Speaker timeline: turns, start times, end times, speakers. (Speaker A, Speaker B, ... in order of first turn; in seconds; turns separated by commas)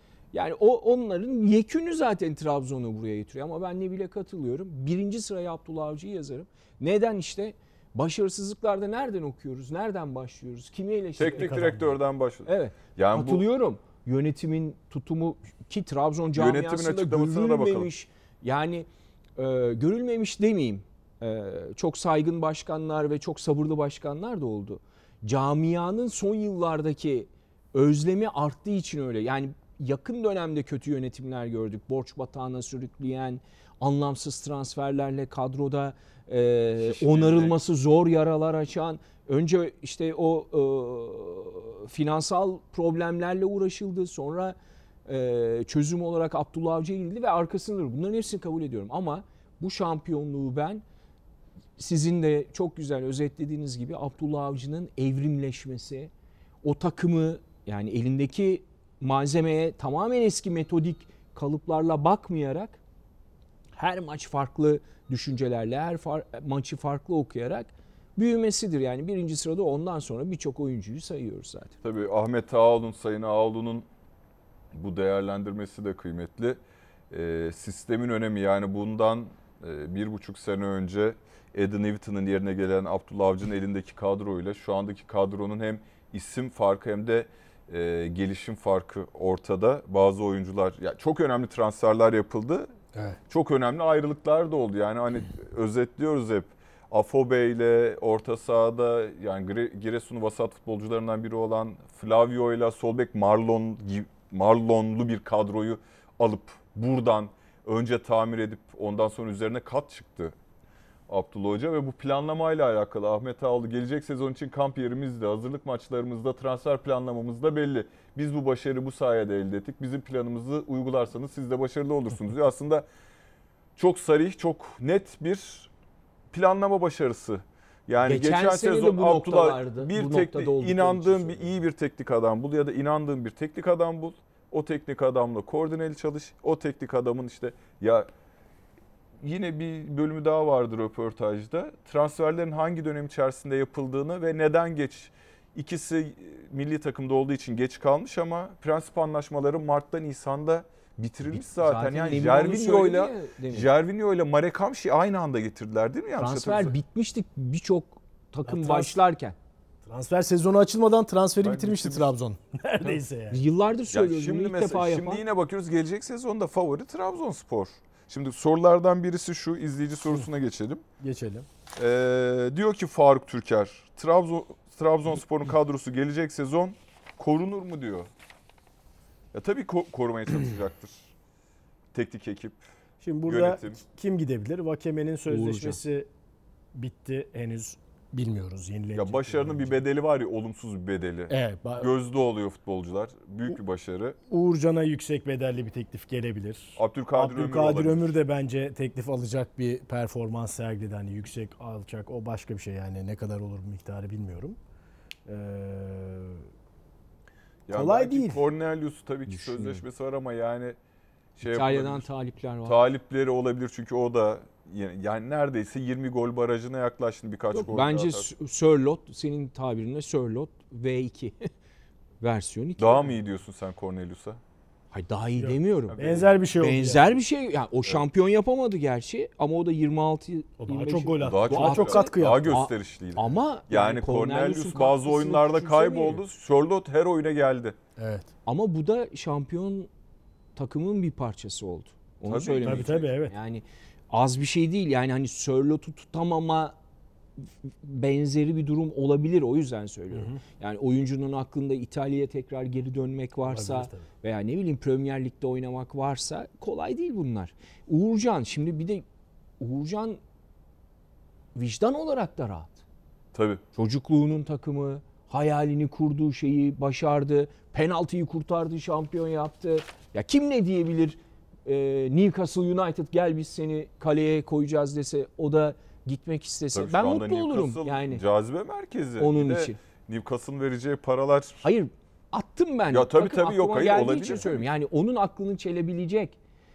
Speaker A: 0.3-11.5, Speaker B: 11.2-13.4, Speaker C: 11.2-12.0, Speaker A: 12.5-44.5, Speaker B: 16.3-17.9, Speaker B: 36.8-37.6, Speaker A: 45.1-50.8, Speaker A: 51.8-56.1, Speaker A: 56.6-62.8, Speaker A: 63.8-71.8, Speaker B: 71.8-73.8, Speaker B: 74.7-76.6, Speaker B: 77.1-92.7, Speaker B: 93.3-110.3, Speaker B: 111.1-122.9, Speaker B: 123.8-125.7, Speaker B: 126.3-138.1, Speaker A: 128.0-131.6, Speaker B: 139.2-156.8, Speaker A: 151.3-153.7, Speaker A: 156.2-159.3, Speaker C: 158.5-159.0, Speaker C: 159.8-163.4, Speaker B: 161.4-162.1, Speaker A: 162.8-165.2, Speaker B: 163.9-170.8, Speaker C: 171.0-171.5, Speaker B: 171.8-178.1, Speaker B: 179.3-181.1, Speaker B: 181.9-182.6, Speaker C: 183.0-186.1, Speaker B: 183.3-183.8, Speaker A: 185.3-185.8, Speaker C: 186.7-189.8, Speaker B: 188.9-194.2, Speaker C: 191.3-191.9, Speaker C: 194.3-204.6, Speaker B: 196.8-198.2, Speaker C: 205.3-206.5, Speaker B: 207.7-210.8, Speaker C: 207.7-208.4, Speaker A: 209.3-209.8, Speaker B: 211.4-212.1, Speaker A: 211.4-212.8, Speaker B: 212.6-218.3, Speaker A: 217.5-221.5, Speaker A: 222.2-223.2, Speaker B: 222.8-224.4, Speaker A: 224.9-226.0, Speaker C: 225.4-227.1, Speaker B: 225.9-226.4, Speaker A: 226.6-236.2, Speaker C: 230.6-232.5, Speaker B: 231.2-237.8, Speaker C: 238.0-238.3, Speaker A: 238.5-239.9, Speaker A: 240.6-246.8, Speaker B: 242.2-243.1, Speaker C: 242.6-243.3, Speaker A: 247.4-259.0, Speaker C: 250.1-250.4, Speaker C: 253.5-254.1, Speaker A: 259.6-260.2, Speaker A: 261.6-262.8, Speaker B: 263.3-263.6, Speaker A: 263.8-278.2, Speaker B: 276.7-281.6, Speaker A: 279.2-279.8, Speaker A: 281.6-286.4, Speaker B: 282.9-284.7